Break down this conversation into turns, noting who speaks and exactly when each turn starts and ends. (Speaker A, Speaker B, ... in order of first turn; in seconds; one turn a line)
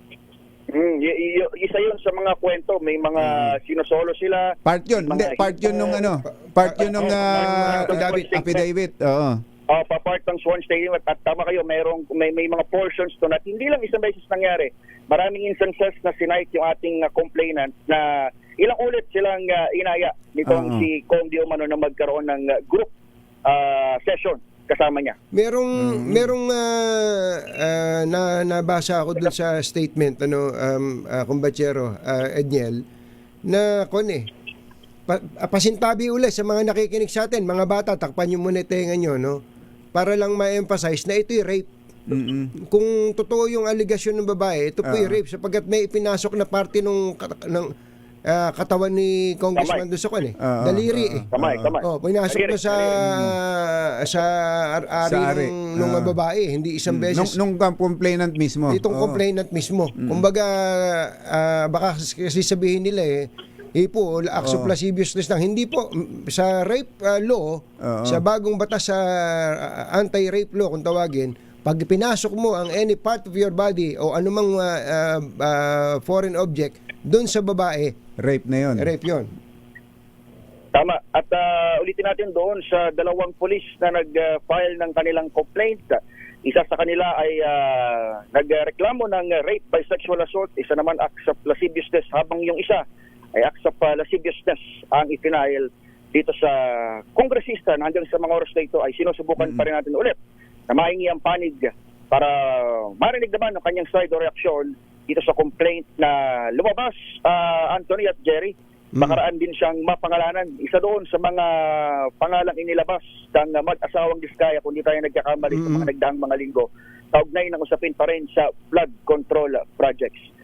Speaker A: 0.7-6.1
Speaker B: 3.1-3.5
Speaker B: 4.6-9.4
Speaker C: 6.5-8.4
Speaker A: 6.8-8.7
Speaker A: 9.7-18.1
Speaker A: 18.6-22.9
Speaker B: 20.4-20.9
Speaker A: 23.5-25.1
Speaker C: 25.3-32.8
Speaker B: 25.8-26.3
Speaker C: 33.5-34.3
Speaker C: 35.1-39.4
Speaker C: 39.9-41.7
Speaker B: 42.1-42.5
Speaker C: 42.7-47.7
Speaker B: 44.8-45.2
Speaker C: 48.3-51.3
Speaker A: 49.5-49.8
Speaker B: 50.4-51.7
Speaker A: 51.3-53.0
Speaker C: 51.8-57.4
Speaker B: 53.0-53.3
Speaker B: 55.0-56.1
Speaker B: 56.9-59.2
Speaker C: 58.7-78.0
Speaker B: 60.0-60.2
Speaker B: 64.4-64.7
Speaker B: 67.8-68.2
Speaker B: 78.2-78.9
Speaker C: 78.8-79.3
Speaker A: 80.7-92.8
Speaker A: 93.3-100.2
Speaker B: 99.4-99.7
Speaker A: 100.7-120.3
Speaker C: 108.9-109.2
Speaker C: 115.5-115.9